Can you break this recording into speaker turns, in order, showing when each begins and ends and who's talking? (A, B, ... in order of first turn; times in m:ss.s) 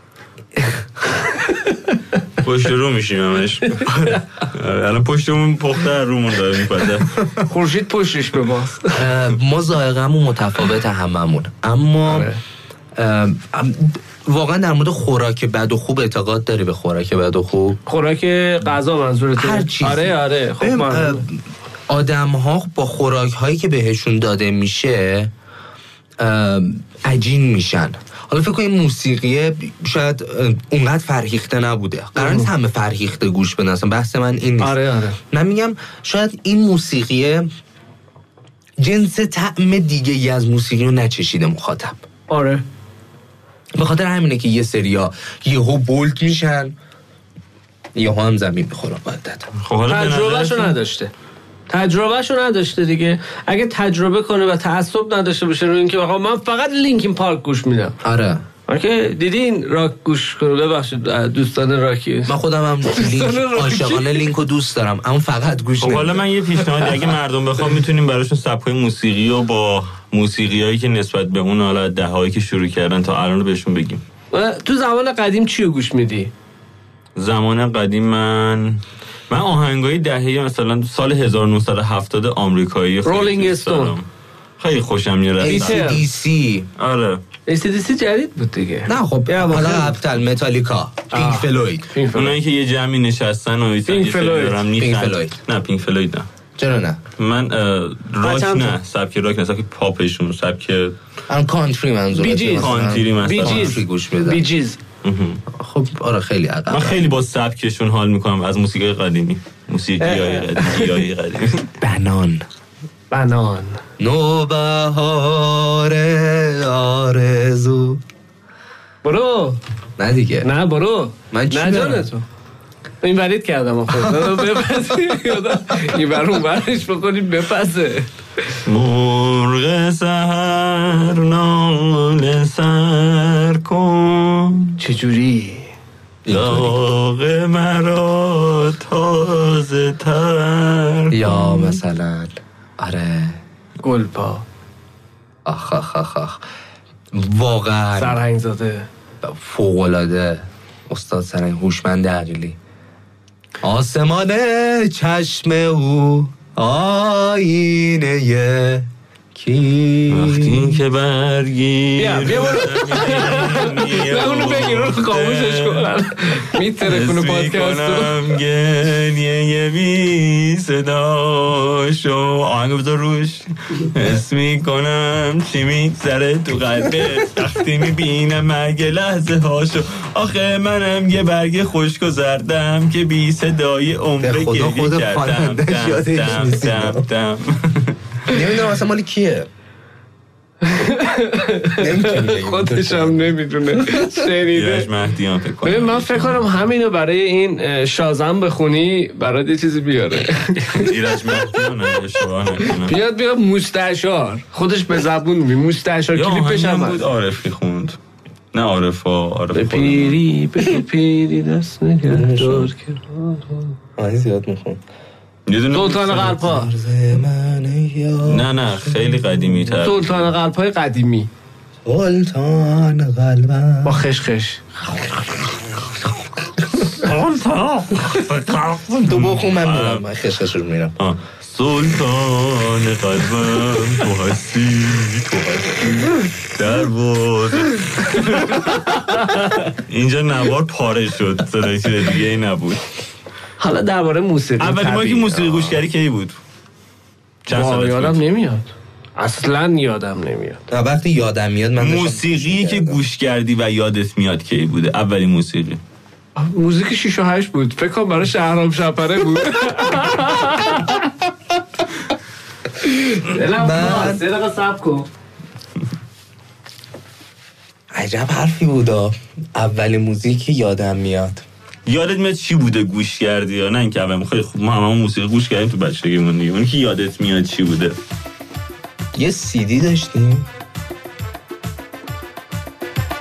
0:01.1-0:02.2 A
0:02.4-0:07.2 B
0:03.8-0:04.2 A
0:07.4-0:09.0 A
0:08.9-0:12.3 C
0:12.0-0:12.4 A
0:13.0-0:17.8 C
0:17.8-0:21.2 A
0:19.4-0:25.3 C
0:26.2-0:37.5 C
0:32.2-0:32.5 A
0:34.6-0:35.2 A
0:38.8-0:42.0 C
0:42.3-0:42.6 A
0:43.7-0:46.7 C
0:47.9-0:49.5 C
0:49.6-0:50.8 B
0:49.9-0:51.1 A
0:51.7-0:58.0 A
0:58.0-0:58.4 C
0:58.7-1:02.3 A
1:02.3-1:06.2 C
1:02.8-1:04.3 A
1:05.8-1:14.0 B
1:14.3-1:16.3 A
1:17.2-1:26.0 B
1:23.0-1:24.0 A
1:25.4-1:26.7 C
1:25.4-1:26.0 A
1:26.8-1:27.2 B
1:27.4-1:30.0 A
1:28.8-1:31.8 C
1:31.1-1:32.4 A
1:32.1-1:36.3 B
1:33.9-1:34.6 A
1:34.8-1:35.4 C
1:36.6-1:37.0 C
1:37.2-1:41.0 B
1:38.2-1:38.8 A
1:41.3-1:44.4 C
1:42.1-1:44.8 A
1:42.6-1:43.8 B
1:45.0-1:45.4 B
1:45.5-1:47.0 C
1:46.7-1:51.7 B
1:50.0-1:50.9 A
1:51.8-1:52.4 C
1:53.1-1:53.8 A
1:54.0-1:58.0 C
1:59.0-1:59.6 A
2:00.0-2:00.5 C
2:00.4-2:02.2 A
2:01.3-2:02.1 C
2:03.0-2:08.6 A
2:04.0-2:04.4 C
2:08.6-2:14.8 B
2:14.8-2:15.7 A
2:16.2-2:16.8 C
2:16.3-2:21.8 B
2:21.1-2:23.4 C
2:23.8-2:24.4 A
2:25.4-2:26.4 C
2:27.1-2:28.2 C
2:27.9-2:28.9 A
2:29.2-2:32.6 C
2:33.6-2:40.8 C
2:40.1-2:45.9 B
2:42.0-2:48.3 A
2:46.6-3:08.4 B
3:04.2-3:07.1 C
3:08.3-3:09.5 C
3:10.6-3:14.9 A
3:11.8-3:14.1 C
3:14.5-3:16.5 B
3:15.6-3:21.4 A
3:20.7-3:23.0 B
3:22.6-3:27.0 A
3:26.1-3:28.0 B
3:28.5-3:30.2 B
3:29.5-3:33.7 A
3:32.1-3:32.7 C
3:34.0-3:34.8 C
3:35.5-3:36.4 B
3:35.7-3:36.7 A
3:36.2-3:39.2 C
3:38.2-3:40.3 B
3:39.8-3:41.3 A
3:41.8-3:44.0 C
3:43.8-3:44.7 A
3:46.8-3:50.0 B
3:49.0-3:51.0 C
3:51.0-4:02.8 B
3:59.0-3:59.6 A
4:03.6-4:05.8 A
4:04.6-4:06.4 B
4:07.4-4:08.2 B
4:07.5-4:10.6 A
4:10.7-4:13.0 C
4:11.8-4:15.8 B
4:16.4-4:21.1 A
4:22.8-4:25.1 A
4:23.5-4:24.2 C
4:27.9-4:31.4 C
4:31.8-4:38.0 B
4:39.1-4:40.5 C